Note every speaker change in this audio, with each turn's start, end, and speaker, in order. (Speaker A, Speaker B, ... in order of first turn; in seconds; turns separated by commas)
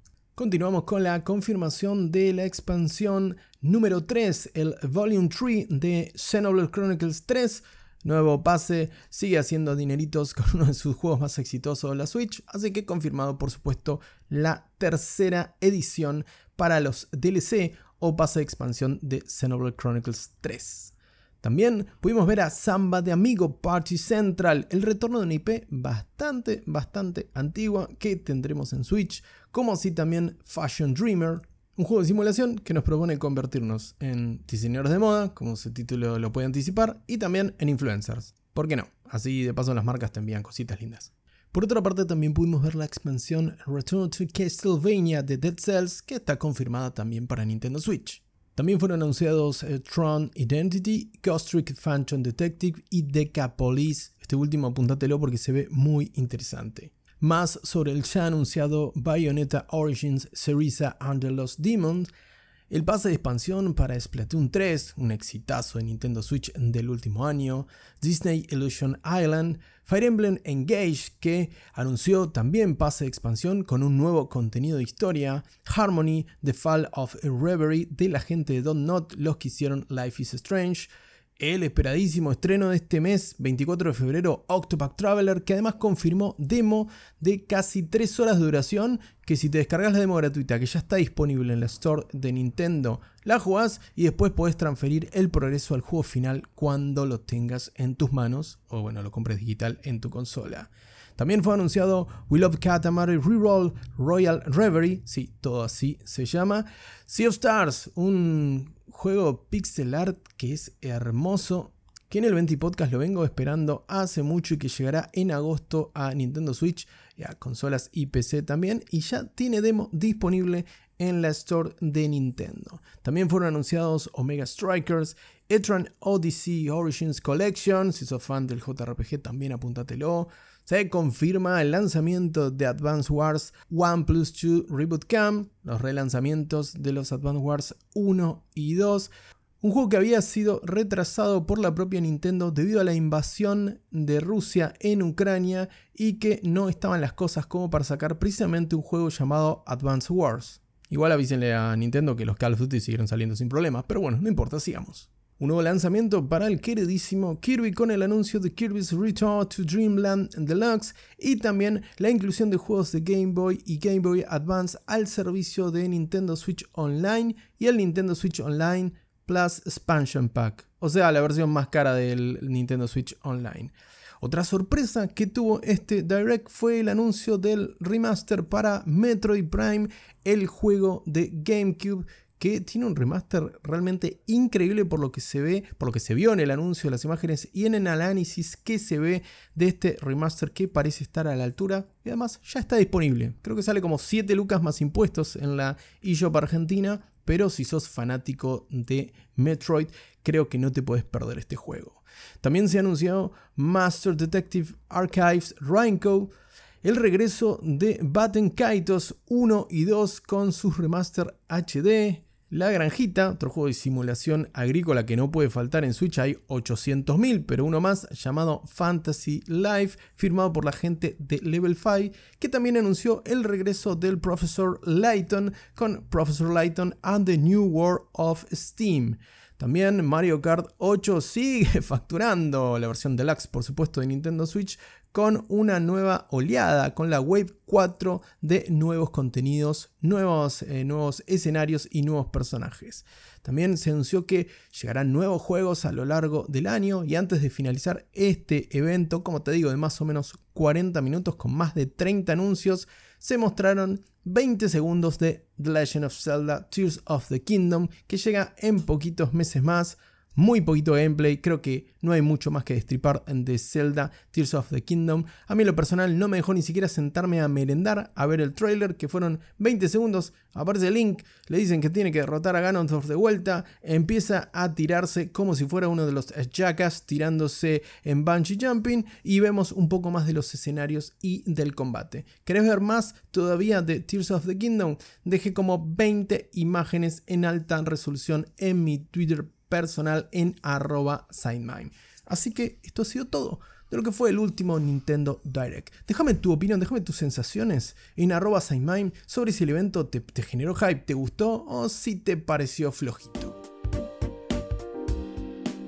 Speaker A: 0.4-62.1, Speaker A: 62.7-206.3, Speaker A: 206.8-303.6